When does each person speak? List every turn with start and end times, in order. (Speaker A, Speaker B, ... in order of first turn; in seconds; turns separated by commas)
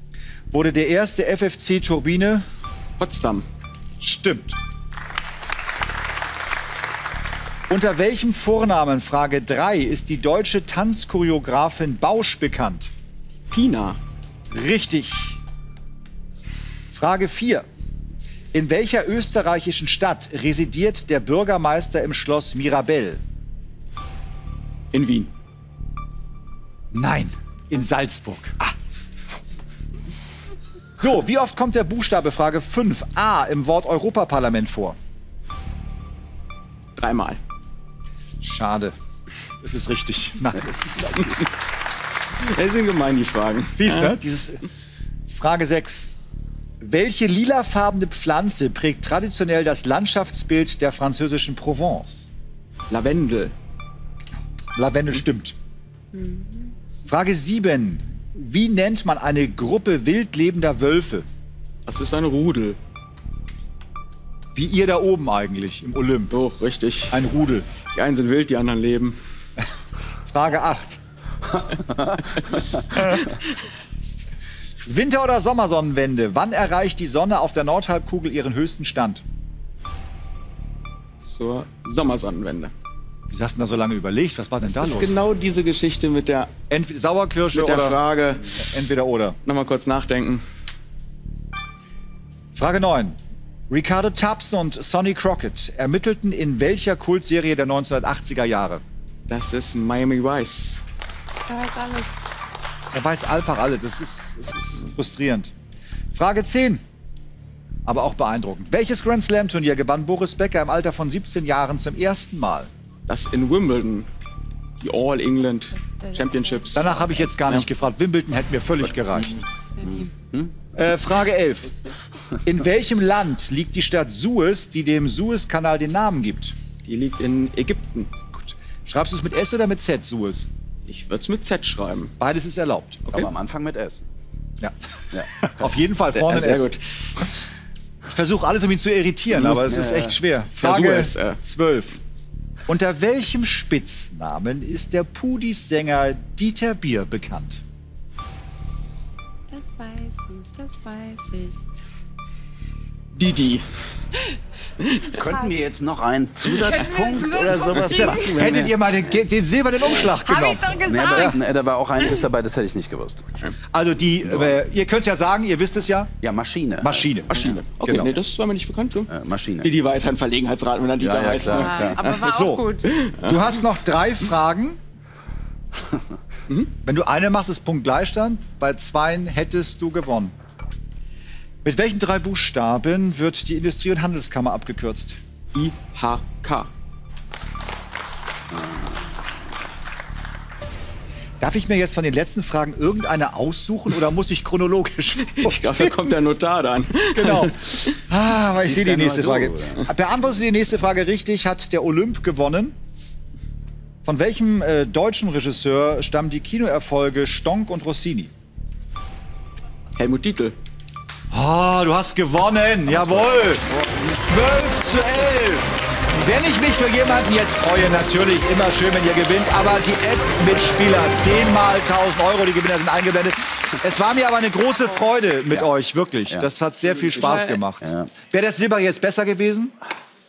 Speaker A: 0.5-2.5, Speaker B: 3.0-3.4, Speaker A: 4.0-4.6, Speaker A: 7.7-12.9, Speaker B: 13.5-14.0, Speaker A: 14.5-15.4, Speaker A: 16.9-17.6, Speaker A: 18.5-23.2, Speaker B: 24.9-25.3, Speaker A: 26.9-28.6, Speaker A: 31.0-35.0, Speaker B: 37.0-37.4, Speaker A: 38.4-38.9, Speaker A: 39.6-41.3, Speaker B: 42.4-44.1, Speaker A: 43.8-44.6, Speaker A: 45.3-46.1, Speaker A: 46.8-52.3, Speaker B: 52.9-53.5, Speaker A: 54.8-55.5, Speaker C: 56.1-56.7, Speaker A: 57.0-61.2, Speaker B: 61.9-62.8, Speaker A: 64.5-66.3, Speaker B: 66.3-67.2, Speaker A: 67.1-67.7, Speaker B: 67.8-69.2, Speaker A: 70.2-71.0, Speaker D: 71.6-72.1, Speaker A: 72.9-73.2, Speaker A: 74.8-79.2, Speaker B: 81.2-82.7, Speaker A: 83.3-85.2, Speaker B: 84.6-86.5, Speaker A: 86.7-88.0, Speaker B: 87.5-88.6, Speaker A: 88.6-89.3, Speaker B: 89.4-90.4, Speaker A: 92.5-93.2, Speaker A: 93.7-98.8, Speaker B: 99.3-100.8, Speaker C: 101.5-102.1, Speaker A: 102.9-105.5, Speaker A: 106.1-106.8, Speaker A: 107.8-112.7, Speaker B: 113.1-114.1, Speaker B: 114.8-117.7, Speaker C: 115.8-116.7, Speaker A: 116.7-119.4, Speaker D: 119.1-120.5, Speaker A: 120.8-121.7, Speaker A: 122.4-126.5, Speaker B: 126.8-128.1, Speaker A: 128.3-130.5, Speaker B: 130.9-132.1, Speaker A: 132.2-133.2, Speaker D: 133.1-134.0, Speaker D: 135.1-135.5, Speaker A: 135.4-136.7, Speaker B: 136.1-137.1, Speaker A: 138.1-142.0, Speaker D: 139.6-140.2, Speaker B: 140.5-141.4, Speaker A: 142.7-147.6, Speaker C: 149.5-151.6, Speaker B: 153.1-153.7, Speaker B: 154.8-155.1, Speaker D: 155.1-159.2, Speaker C: 156.5-158.4, Speaker A: 158.2-161.4, Speaker C: 160.2-161.4, Speaker D: 160.9-163.4, Speaker A: 163.7-166.1, Speaker D: 164.2-164.6, Speaker D: 166.2-167.5, Speaker A: 166.8-168.1, Speaker B: 167.3-172.2, Speaker D: 169.1-169.7, Speaker D: 171.0-172.0, Speaker C: 171.5-172.9, Speaker A: 172.2-172.6, Speaker B: 172.9-173.4, Speaker A: 173.2-174.8, Speaker A: 176.8-180.3, Speaker A: 181.6-185.2, Speaker B: 185.5-186.7, Speaker A: 191.4-195.9, Speaker B: 195.3-197.9, Speaker A: 197.1-202.8, Speaker D: 198.6-199.8, Speaker A: 204.0-208.3, Speaker B: 209.9-210.5, Speaker A: 211.3-229.7, Speaker D: 227.8-228.1